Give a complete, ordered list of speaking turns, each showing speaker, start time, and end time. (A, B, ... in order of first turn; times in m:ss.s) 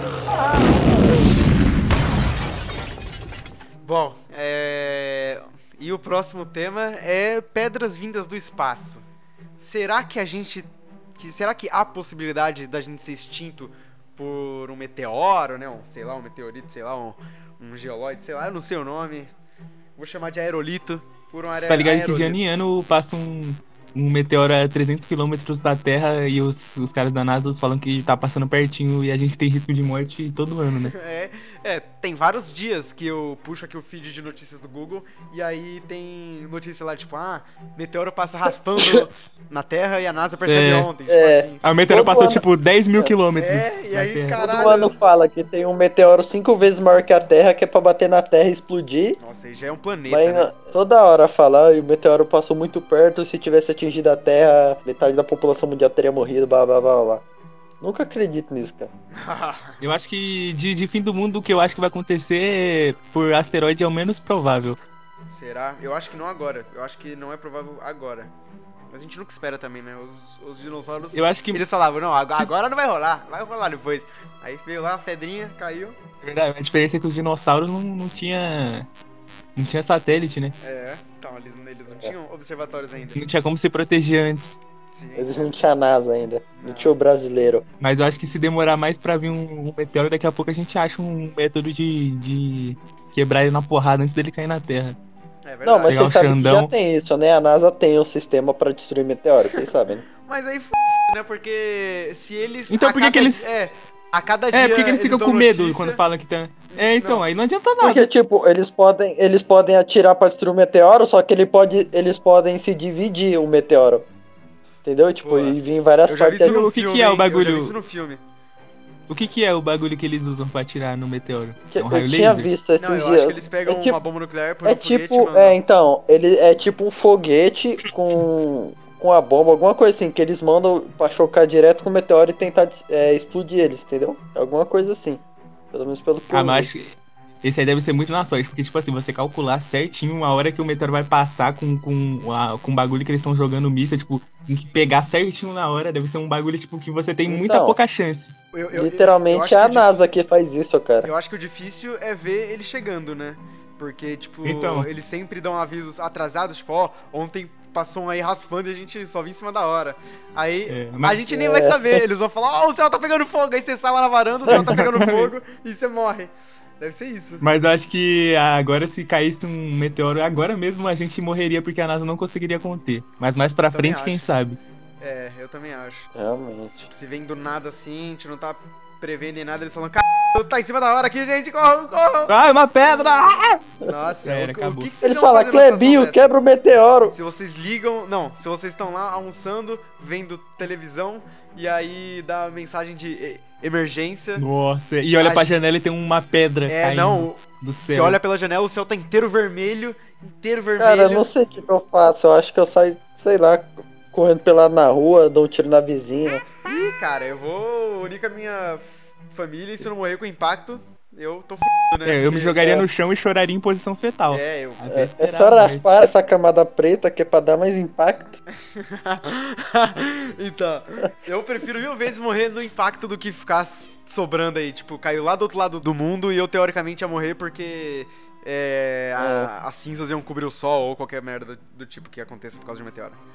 0:03.8-0:09.0 A
0:09.6-0:19.3 A
0:20.0-0:22.4 A
0:21.6-0:30.9 B
0:30.8-0:41.6 A
0:38.8-0:39.0 C
0:40.5-0:40.9 B
0:41.1-0:42.4 C
0:41.6-0:44.7 B
0:43.4-0:45.0 A
0:44.4-0:49.2 C
0:49.2-0:50.6 A
0:50.1-0:57.2 C
0:57.8-0:58.9 C
0:59.1-0:59.8 A
0:59.8-1:04.8 B
1:05.3-1:08.3 A
1:08.9-1:16.0 A
1:11.1-1:11.6 B
1:16.2-1:18.9 B
1:19.6-1:20.6 B
1:20.6-1:23.2 A
1:23.2-1:24.6 B
1:24.9-1:25.6 A
1:25.2-1:27.6 C
1:26.6-1:26.9 A
1:27.8-1:35.0 B
1:35.4-1:36.1 A
1:35.6-1:40.0 C
1:35.9-1:36.7 B
1:40.2-1:46.0 A
1:42.7-1:43.5 B
1:44.5-1:48.1 B
1:46.7-1:47.2 A
1:47.8-1:54.1 C
1:54.8-1:56.6 C
1:55.2-1:58.2 A
1:56.4-1:57.8 B
1:59.1-2:02.5 B
2:01.7-2:04.0 C
2:02.8-2:05.6 A
2:04.6-2:16.7 C
2:16.3-2:28.4 B
2:27.3-2:27.8 C
2:28.5-2:30.0 A
2:28.7-2:31.1 C
2:31.0-2:47.4 A
2:34.4-2:34.9 B
2:40.7-2:41.2 B
2:41.3-2:42.0 C
2:44.5-2:44.7 C
2:44.5-2:45.3 B
2:47.4-2:54.6 B
2:53.7-2:54.3 A
2:55.0-2:56.1 A
2:56.2-2:56.9 C
2:56.8-3:02.3 A
3:02.3-3:03.6 B
3:03.8-3:06.4 A
3:04.2-3:04.9 B
3:05.0-3:07.2 C
3:07.1-3:14.4 A
3:14.4-3:18.2 B
3:15.2-3:15.5 A
3:16.7-3:21.3 A
3:20.8-3:26.5 C
3:26.7-3:32.7 A
3:32.0-3:35.9 B
3:34.3-3:34.9 A
3:34.9-3:38.4 C
3:38.8-3:53.2 A
3:49.2-3:49.5 C